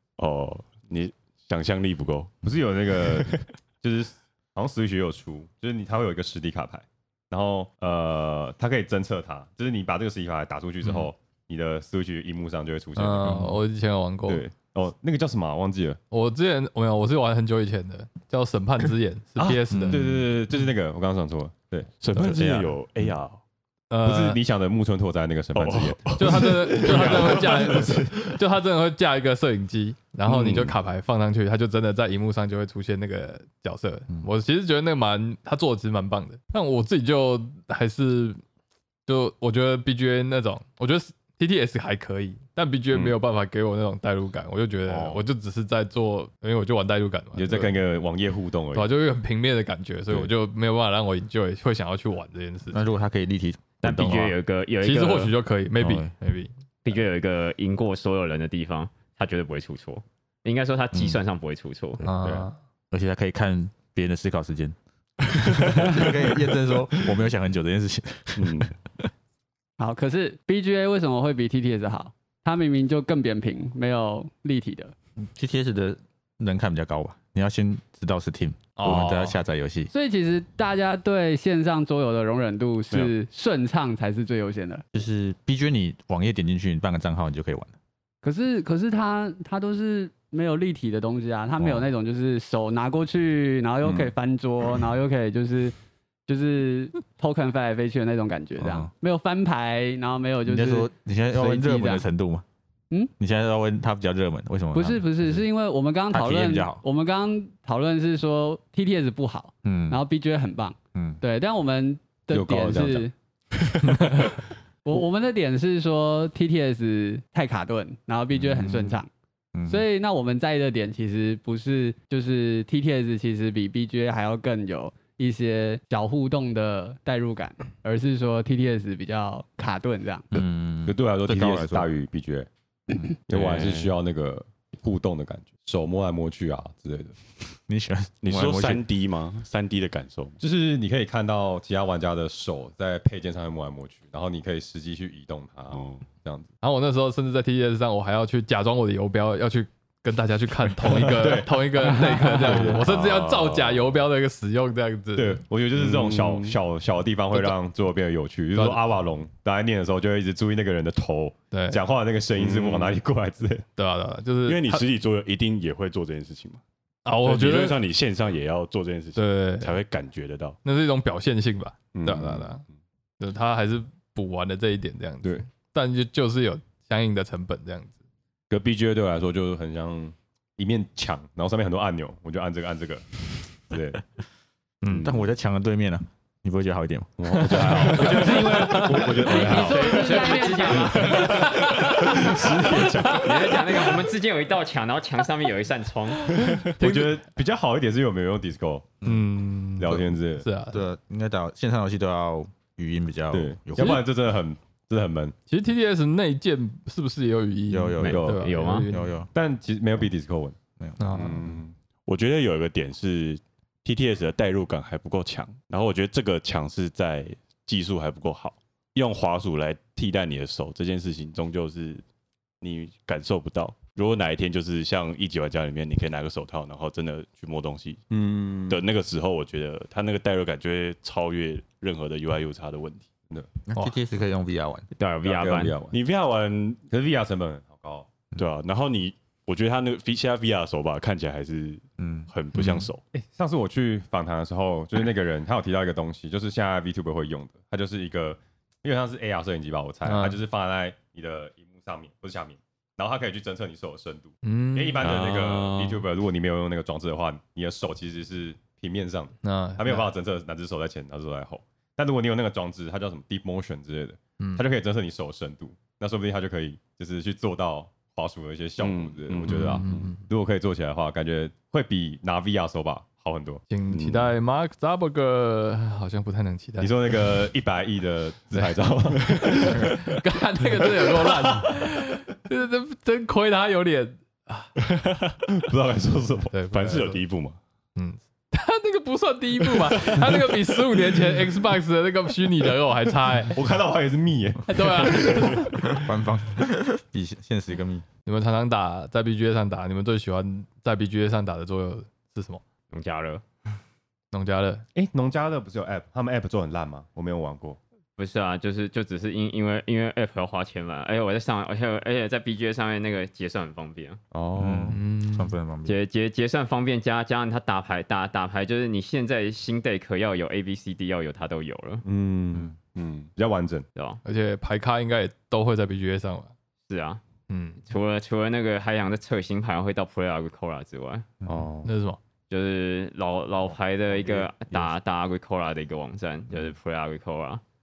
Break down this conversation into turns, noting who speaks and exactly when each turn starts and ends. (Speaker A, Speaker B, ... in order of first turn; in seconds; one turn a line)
Speaker A: 0.2-2.4
Speaker B: 2.4-13.5
Speaker A: 3.1-3.4
Speaker C: 12.9-14.4
Speaker B: 14.3-16.0
Speaker C: 16.1-20.0
Speaker B: 19.4-21.9
Speaker D: 19.7-20.2
Speaker A: 22.0-23.4
Speaker D: 22.1-23.1
Speaker C: 23.9-24.4
Speaker B: 24.0-28.0
Speaker A: 25.5-28.1
Speaker C: 26.1-38.4
Speaker A: 30.3-30.8
Speaker C: 39.0-47.7
Speaker A: 44.9-45.2
Speaker B: 47.3-48.9
Speaker C: 48.7-52.8
Speaker D: 52.7-54.3
Speaker E: 53.8-55.3
Speaker C: 54.8-56.5
Speaker D: 55.8-56.1
Speaker E: 56.8-62.0
Speaker D: 60.9-61.2
Speaker D: 62.0-68.7
Speaker C: 62.0-62.5
Speaker A: 68.3-68.7
Speaker F: 69.8-74.9
Speaker D: 75.2-79.9
Speaker C: 78.8-79.4
Speaker F: 79.9-84.8
Speaker D: 84.9-87.7
Speaker F: 88.2-95.7
Speaker D: 91.6-91.9
Speaker F: 96.3-102.0
Speaker D: 98.6-98.9
Speaker D: 100.4-102.4
Speaker D: 103.2-105.4
Speaker F: 104.7-113.1
Speaker D: 106.1-106.8
Speaker D: 109.6-110.0
Speaker D: 110.9-111.2
Speaker B: 112.3-113.1
Speaker C: 113.9-114.3
Speaker F: 114.8-119.1
Speaker D: 118.3-119.0
Speaker D: 119.5-119.8
Speaker F: 119.7-130.4
Speaker D: 130.3-131.9
Speaker B: 130.8-132.5
Speaker B: 133.3-137.1
Speaker A: 133.3-133.9
Speaker D: 137.7-138.8
Speaker A: 138.2-140.4
Speaker B: 140.4-146.5
Speaker A: 145.7-146.1
Speaker C: 146.6-155.4
Speaker B: 150.8-151.9
Speaker A: 152.4-153.9
Speaker B: 152.4-152.8
Speaker B: 155.2-163.6
Speaker A: 155.7-156.6
Speaker C: 158.5-158.8
Speaker C: 161.5-161.8
Speaker A: 162.3-163.0
Speaker C: 163.8-164.8
Speaker A: 164.4-166.6
Speaker C: 167.0-167.8
Speaker A: 167.2-170.6
Speaker C: 169.2-169.7
Speaker C: 170.6-172.6
Speaker B: 171.9-172.5
Speaker C: 173.2-177.9
Speaker B: 178.5-184.0
Speaker D: 184.8-188.1
Speaker B: 187.2-190.3
Speaker C: 187.6-189.4
Speaker A: 187.6-189.7
Speaker F: 189.2-191.4
Speaker E: 189.3-191.4
Speaker C: 190.0-192.4
Speaker B: 191.0-193.7
Speaker A: 191.0-192.2
Speaker E: 193.1-196.4
Speaker C: 196.6-197.2
Speaker B: 196.6-198.9
Speaker C: 199.0-200.8
Speaker B: 199.8-200.4
Speaker D: 200.7-204.1
Speaker B: 203.3-205.3
Speaker C: 203.8-204.0
Speaker C: 205.5-209.1
Speaker D: 207.7-209.3
Speaker E: 208.0-208.9
Speaker B: 208.0-208.6
Speaker B: 209.3-210.6
Speaker D: 210.8-211.6
Speaker C: 211.0-211.4
Speaker B: 211.1-211.7
Speaker A: 212.1-222.0
Speaker A: 222.6-228.0
Speaker B: 228.1-228.8
Speaker A: 228.7-233.1
Speaker D: 233.7-234.9
Speaker E: 234.9-235.8
Speaker A: 235.2-236.8
Speaker B: 235.3-236.0
Speaker B: 236.9-238.1
Speaker A: 238.3-243.0
Speaker D: 242.0-242.3
Speaker C: 242.5-242.9
Speaker B: 243.1-273.6
Speaker C: 250.0-250.4
Speaker C: 254.4-255.1
Speaker A: 255.0-256.0
Speaker C: 259.4-260.1
Speaker C: 264.4-264.6
Speaker A: 268.8-270.0
Speaker C: 269.5-270.2
Speaker C: 273.7-277.0
Speaker A: 273.9-274.3
Speaker B: 276.8-280.0
Speaker C: 279.3-284.7
Speaker B: 281.0-281.5
Speaker A: 284.9-285.4
Speaker B: 285.5-286.5
Speaker C: 286.5-287.2
Speaker A: 286.7-287.6
Speaker C: 287.9-293.6
Speaker B: 293.5-295.9
Speaker C: 294.7-296.0
Speaker D: 295.7-298.0
Speaker C: 298.2-302.6
Speaker E: 302.9-303.4
Speaker C: 304.3-304.8
Speaker B: 304.9-307.8
Speaker E: 308.2-314.2
Speaker B: 314.3-315.0
Speaker D: 314.5-316.0
Speaker C: 314.9-315.6
Speaker E: 315.9-322.0
Speaker B: 322.0-323.9
Speaker C: 324.2-326.5
Speaker E: 326.9-327.2
Speaker C: 327.5-327.8
Speaker E: 327.8-331.4
Speaker B: 331.4-331.9
Speaker C: 331.8-332.2
Speaker E: 332.5-337.6
Speaker B: 334.2-334.5